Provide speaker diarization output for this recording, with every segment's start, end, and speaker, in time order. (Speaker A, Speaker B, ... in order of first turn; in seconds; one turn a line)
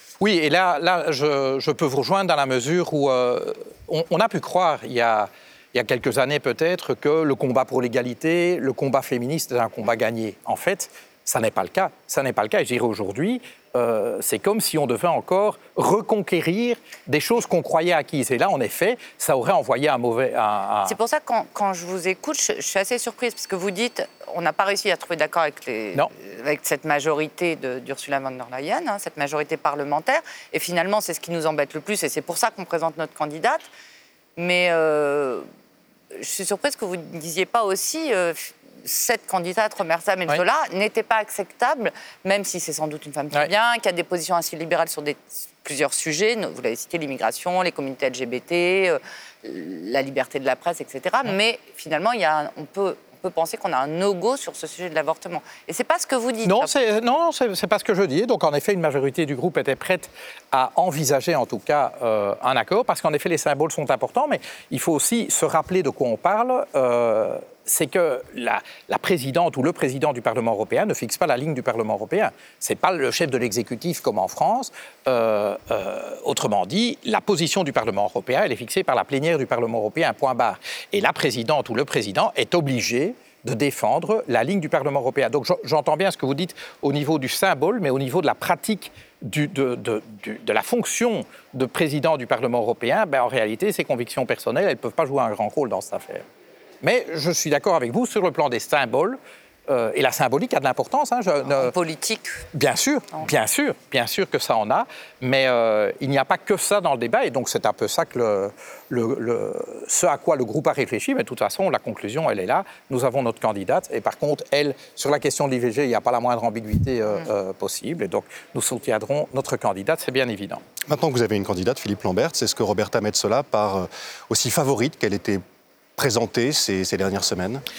Speaker A: 0.2-21.0
Speaker B: 20.9-33.7
Speaker B: 34.4-35.5
Speaker B: 36.1-56.7
Speaker A: 56.4-96.2
Speaker A: 96.8-101.7
Speaker B: 101.5-102.4
Speaker A: 102.5-120.6
Speaker C: 120.9-125.4
Speaker C: 126.0-127.6